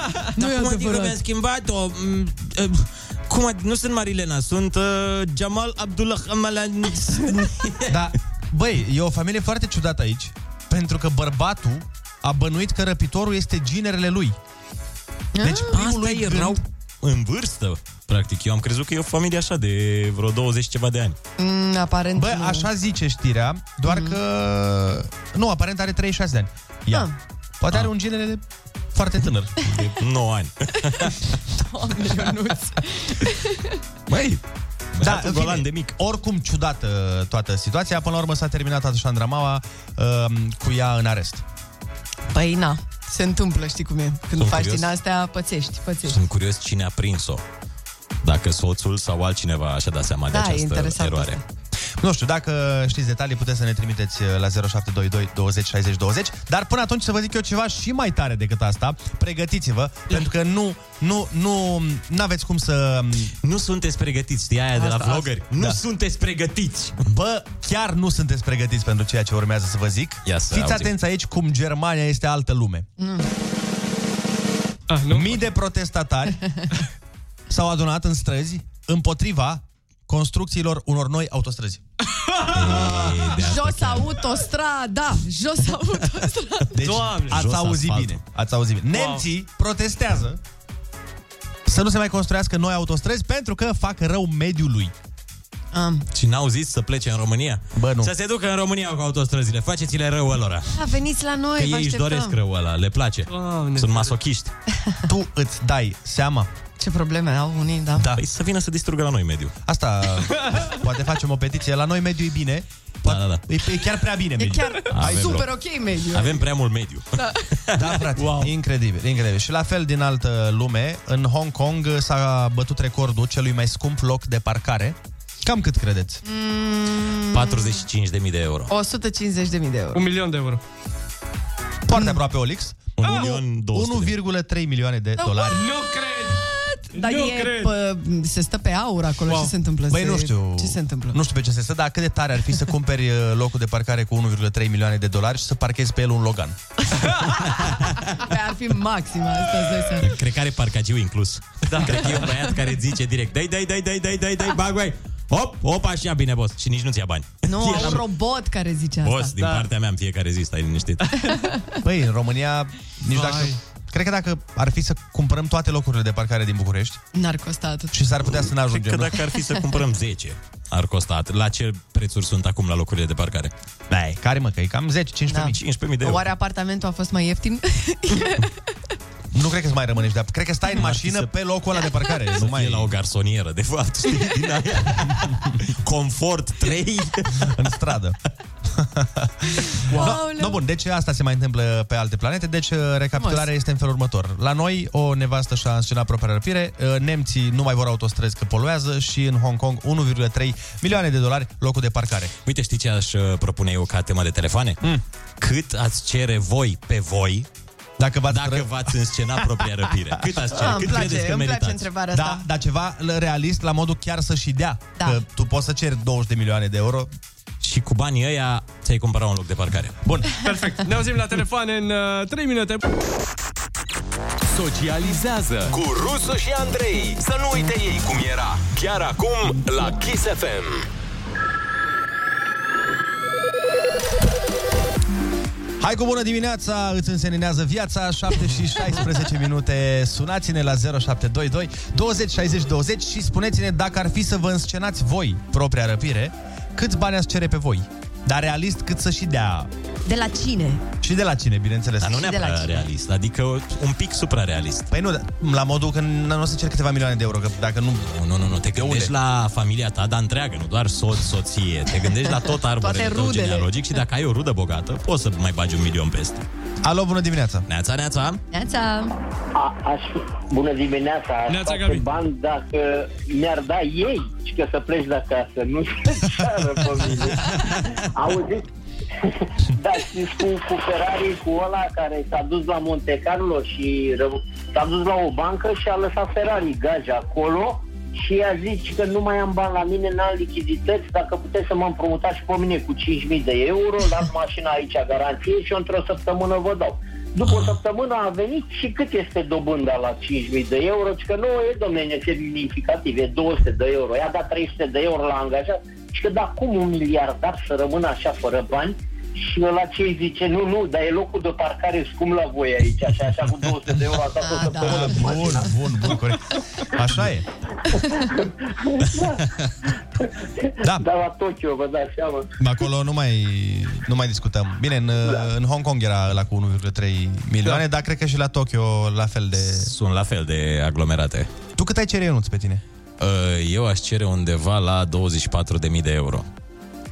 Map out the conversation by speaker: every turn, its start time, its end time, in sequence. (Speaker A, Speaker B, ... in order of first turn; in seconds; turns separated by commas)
Speaker A: 0.3-1.2, Speaker B: 0.3-8.0, Speaker C: 7.8-14.3, Speaker A: 15.3-15.7, Speaker C: 15.4-16.6, Speaker B: 15.7-21.2, Speaker A: 21.4-22.7, Speaker C: 22.1-27.1, Speaker A: 23.9-24.2, Speaker A: 26.9-27.1, Speaker C: 27.6-28.4, Speaker C: 28.9-29.5, Speaker B: 29.6-31.3, Speaker A: 31.5-33.8, Speaker B: 34.9-35.7, Speaker C: 35.0-41.4, Speaker A: 42.3-46.2, Speaker B: 44.3-44.9, Speaker B: 46.0-47.4, Speaker B: 48.2-51.4, Speaker A: 50.3-51.4, Speaker C: 52.0-63.3, Speaker B: 63.4-67.1, Speaker A: 64.7-65.3, Speaker C: 67.0-72.8, Speaker B: 70.2-70.9, Speaker A: 73.0-73.3, Speaker D: 74.9-75.5, Speaker C: 75.1-76.4, Speaker C: 77.5-81.8, Speaker B: 82.5-84.3, Speaker A: 83.3-86.9, Speaker C: 86.7-90.4, Speaker D: 86.9-87.4, Speaker B: 87.1-88.2, Speaker D: 88.9-89.2, Speaker C: 91.7-94.9, Speaker A: 95.7-96.1, Speaker B: 96.1-100.8, Speaker C: 97.7-98.1, Speaker A: 100.7-102.4, Speaker B: 101.5-104.5, Speaker D: 103.3-104.2, Speaker C: 105.1-106.5, Speaker A: 106.8-108.1, Speaker B: 108.1-109.5, Speaker C: 109.7-115.4, Speaker B: 113.0-113.4, Speaker A: 114.4-116.5, Speaker B: 114.9-115.5, Speaker B: 116.1-117.8, Speaker A: 117.2-117.4, Speaker C: 117.7-126.2, Speaker A: 126.2-127.8, Speaker B: 127.3-128.7, Speaker A: 128.7-130.0, Speaker D: 129.9-130.6, Speaker C: 131.9-135.6, Speaker A: 131.9-132.2, Speaker B: 133.0-134.2, Speaker D: 133.0-133.4, Speaker A: 135.2-135.7, Speaker D: 135.5-136.3, Speaker A: 136.6-141.2, Speaker D: 136.9-137.7, Speaker D: 139.3-139.5, Speaker C: 139.9-146.6, Speaker A: 147.6-150.2, Speaker B: 150.0-158.1, Speaker D: 151.7-152.4, Speaker A: 151.9-152.3, Speaker A: 157.4-159.5, Speaker B: 159.0-161.4, Speaker A: 161.2-161.8, Speaker C: 161.8-167.0, Speaker D: 163.1-163.6, Speaker A: 167.1-167.9, Speaker C: 167.9-169.2, Speaker B: 168.2-173.5, Speaker A: 169.3-169.6, Speaker C: 173.9-175.6, Speaker A: 175.3-178.5, Speaker B: 175.5-176.3, Speaker C: 179.3-182.9, Speaker B: 180.8-181.3, Speaker B: 182.3-187.5, Speaker C: 187.5-188.2, Speaker C: 188.7-202.3, Speaker A: 189.9-190.6, Speaker A: 193.2-193.5, Speaker B: 202.4-204.8, Speaker B: 205.4-207.5, Speaker C: 208.0-208.8, Speaker B: 208.3-211.9, Speaker A: 210.5-212.4, Speaker C: 212.1-217.1, Speaker A: 215.0-215.2, Speaker B: 217.6-220.0, Speaker C: 220.0-220.3, Speaker D: 220.4-222.8, Speaker E: 224.5-230.8, Speaker C: 235.8-249.7, Speaker A: 250.0-250.8, Speaker C: 251.0-252.2, Speaker B: 252.0-254.9, Speaker A: 252.1-252.8, Speaker C: 254.9-258.1, Speaker B: 258.1-266.4, Speaker C: 258.7-259.1, Speaker A: 262.2-264.0, Speaker C: 266.8-267.6, Speaker B: 267.7-268.4, Speaker A: 268.5-269.1, Speaker F: 269.5-278.6, Speaker D: 271.5-272.1, Speaker F: 279.2-315.6, Speaker B: 297.4-297.7, Speaker A: 314.4-315.6, Speaker C: 314.8-317.4, Speaker F: 318.1-319.4, Speaker F: 320.6-322.5, Speaker C: 320.8-321.1, Speaker C: 322.6-329.9, Speaker B: 329.6-331.5, Speaker C: 331.8-332.8, Speaker B: 333.2-336.4